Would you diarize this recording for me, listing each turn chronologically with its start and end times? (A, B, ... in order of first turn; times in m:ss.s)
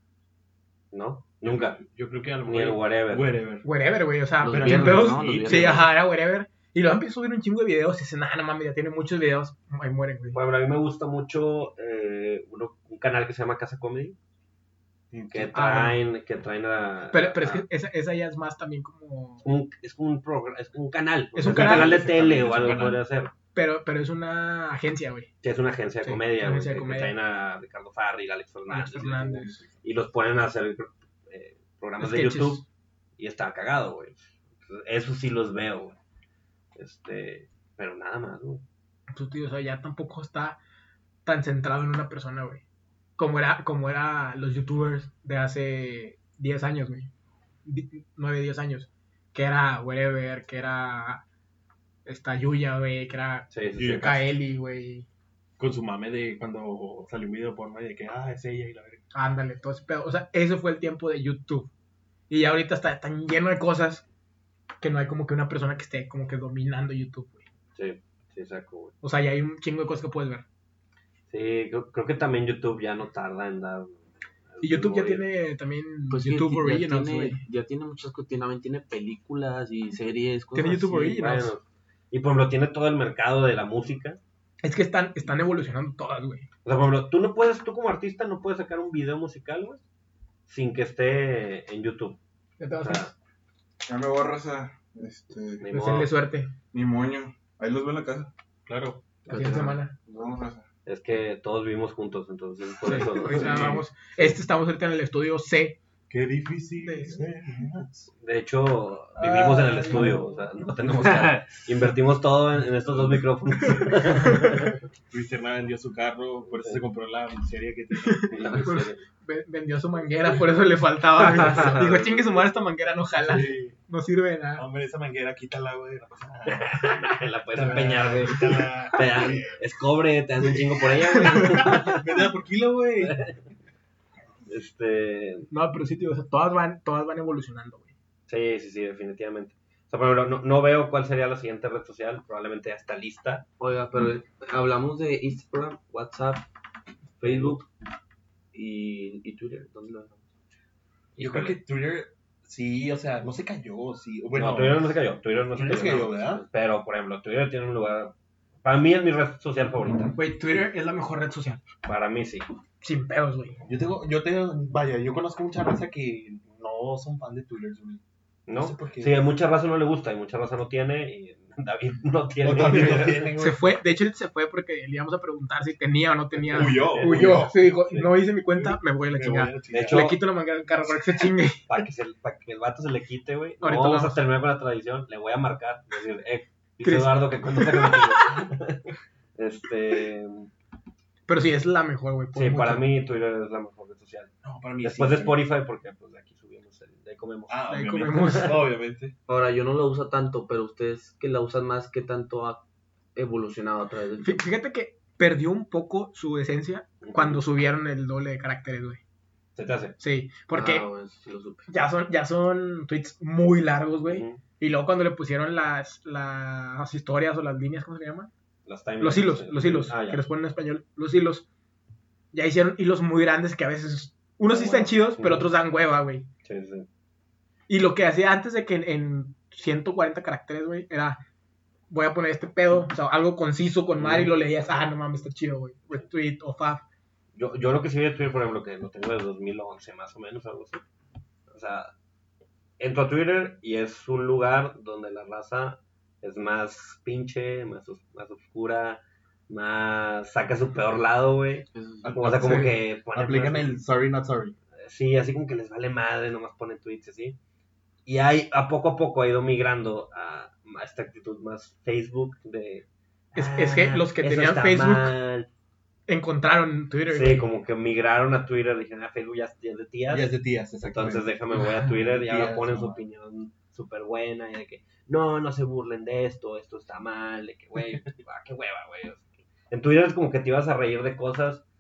0:00.9-0:01.8 A
0:01.4-0:03.7 B
0:02.4-0:03.3 A
0:03.6-0:10.4 C
0:04.4-0:05.8 D
0:04.4-0:05.8 B
0:10.3-0:14.2 A
0:15.1-0:15.6 B
0:15.3-0:17.6 A
0:15.5-0:16.0 C
0:17.1-0:19.4 C
0:19.4-0:23.3 A
0:21.3-0:22.0 C
0:21.4-0:23.0 B
0:23.5-0:25.3 C
0:25.4-0:32.6 A
0:26.0-0:27.1 C
0:28.7-0:29.6 C
0:29.4-0:29.8 B
0:32.0-0:32.6 C
0:33.2-0:36.0 A
0:36.8-0:38.6 A
0:39.1-0:40.6 C
0:41.2-0:42.6 C
0:43.2-0:47.1 C
0:47.6-0:51.2 C
0:52.0-0:55.1 C
0:53.5-0:54.0 A
0:53.8-0:54.2 B
0:55.6-0:59.0 B
0:59.1-1:01.7 C
1:02.3-1:04.0 C
1:04.8-1:07.4 C
1:07.7-1:08.9 A
1:09.0-1:10.4 C
1:11.3-1:15.2 A
1:14.6-1:17.4 C
1:16.1-1:20.9 D
1:20.5-1:21.5 C
1:20.8-1:24.2 A
1:24.6-1:26.5 C
1:26.6-1:29.8 A
1:30.5-1:32.2 A
1:32.6-1:33.1 C
1:32.8-1:33.1 A
1:33.9-1:35.6 E
1:35.6-1:36.1 A
1:35.7-1:36.5 C
1:36.7-1:38.3 E
1:38.7-1:39.2 B
1:39.3-1:39.9 C
1:39.3-1:39.7 D
1:40.0-1:40.6 E
1:40.8-1:44.3 A
1:42.8-1:45.8 C
1:43.2-1:43.8 B
1:46.1-1:48.1 B
1:46.8-1:47.2 C
1:48.2-1:54.8 A
1:49.2-1:50.2 B
1:49.2-1:50.4 C
1:54.2-1:54.5 C
1:55.1-1:58.8 B
1:57.9-2:04.6 C
1:58.3-1:59.0 A
2:01.4-2:02.2 A
2:03.2-2:03.8 B
2:04.6-2:09.6 B
2:06.5-2:12.2 A
2:10.4-2:13.2 B
2:11.1-2:11.6 C
2:13.0-2:13.4 A
2:14.4-2:15.5 A
2:15.5-2:17.9 C
2:18.3-2:23.4 A
2:23.6-2:26.5 D
2:27.2-2:27.7 D
2:27.2-2:27.6 A
2:28.5-2:30.2 D
2:31.2-2:31.6 A
2:31.2-2:34.9 B
2:34.3-2:40.2 A
2:35.5-2:36.4 B
2:40.1-2:41.6 C
2:41.8-2:42.5 A
2:42.8-2:43.6 C
2:43.6-2:48.0 B
2:48.5-2:53.3 A
2:48.5-2:49.2 B
2:52.4-2:53.6 B
2:52.7-3:01.6 C
2:56.5-2:57.6 B
2:56.7-2:58.1 A
2:59.0-3:00.1 B
2:59.7-3:00.2 A
3:01.7-3:10.5 A
3:03.6-3:04.2 C
3:06.8-3:08.1 C
3:11.3-3:12.9 C
3:12.3-3:18.5 A
3:14.4-3:15.4 B
3:17.5-3:19.1 B
3:17.7-3:18.6 C
3:19.3-3:22.6 D
3:23.1-3:24.4 D
3:24.2-3:29.0 C
3:27.0-3:27.4 A
3:29.6-3:30.0 A
3:30.0-3:30.9 C
3:30.5-3:31.7 D
3:31.7-3:38.3 C
3:34.1-3:34.4 A
3:38.6-3:40.2 A
3:39.0-3:41.4 C
3:42.3-3:46.3 C
3:44.5-3:45.5 A
3:46.4-3:46.9 A
3:47.7-3:51.2 C
3:51.9-3:56.8 C
3:54.0-3:54.3 A
3:57.3-4:00.8 A
4:01.5-4:01.9 A
4:02.8-4:13.8 A
4:11.7-4:12.1 D
4:12.0-4:14.6 B
4:14.7-4:17.4 A
4:18.0-4:25.5 A
4:23.3-4:25.2 C
4:26.1-4:27.4 C
4:27.1-4:41.6 A
4:30.1-4:33.0 B